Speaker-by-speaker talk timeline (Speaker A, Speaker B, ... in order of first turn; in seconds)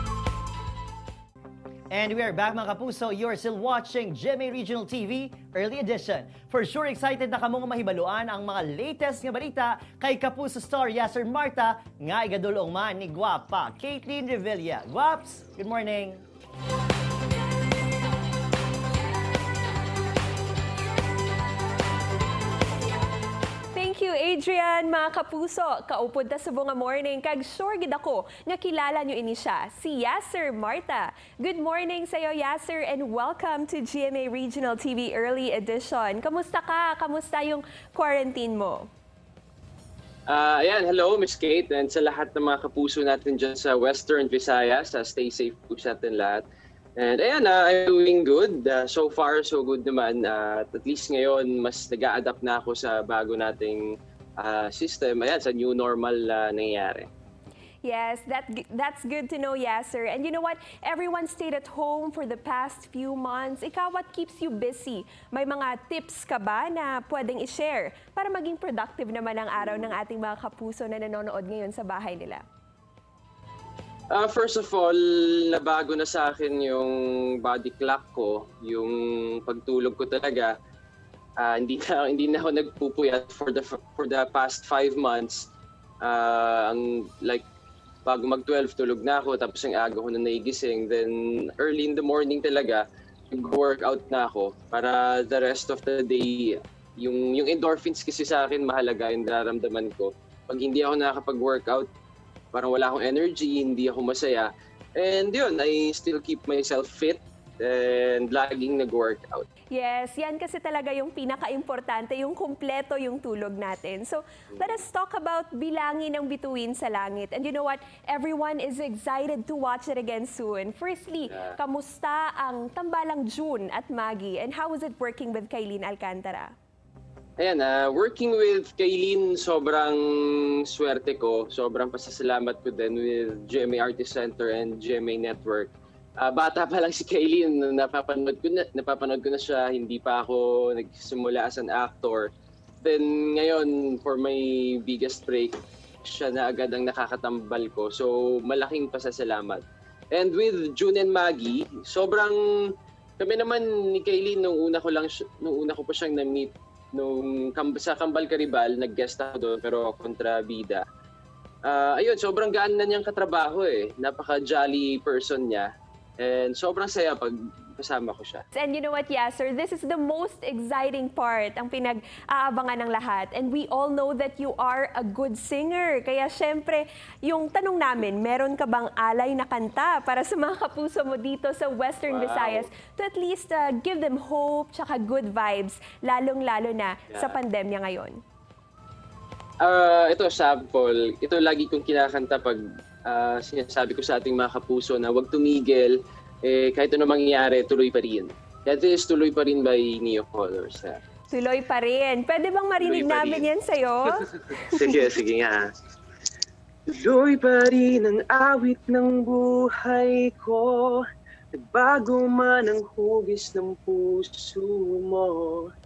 Speaker A: 1.9-16.2
Speaker B: 23.7-38.9, 57.8-72.4, 109.7-126.5, 168.5-188.2, 201.3-204.9
Speaker C: 40.3-46.5, 47.0-53.9, 54.4-57.1, 69.6-69.9, 74.1-80.5, 81.4-85.5, 86.0-87.5, 88.0-101.9, 102.5-109.5, 114.5-114.8, 121.3-121.6, 127.4-142.3, 142.8-152.4, 153.2-160.8, 161.7-165.7, 166.2-168.4, 182.1-182.7, 187.1-187.4, 189.6-201.0, 202.8-203.5, 204.5-205.7, 206.9-211.0, 211.6-215.7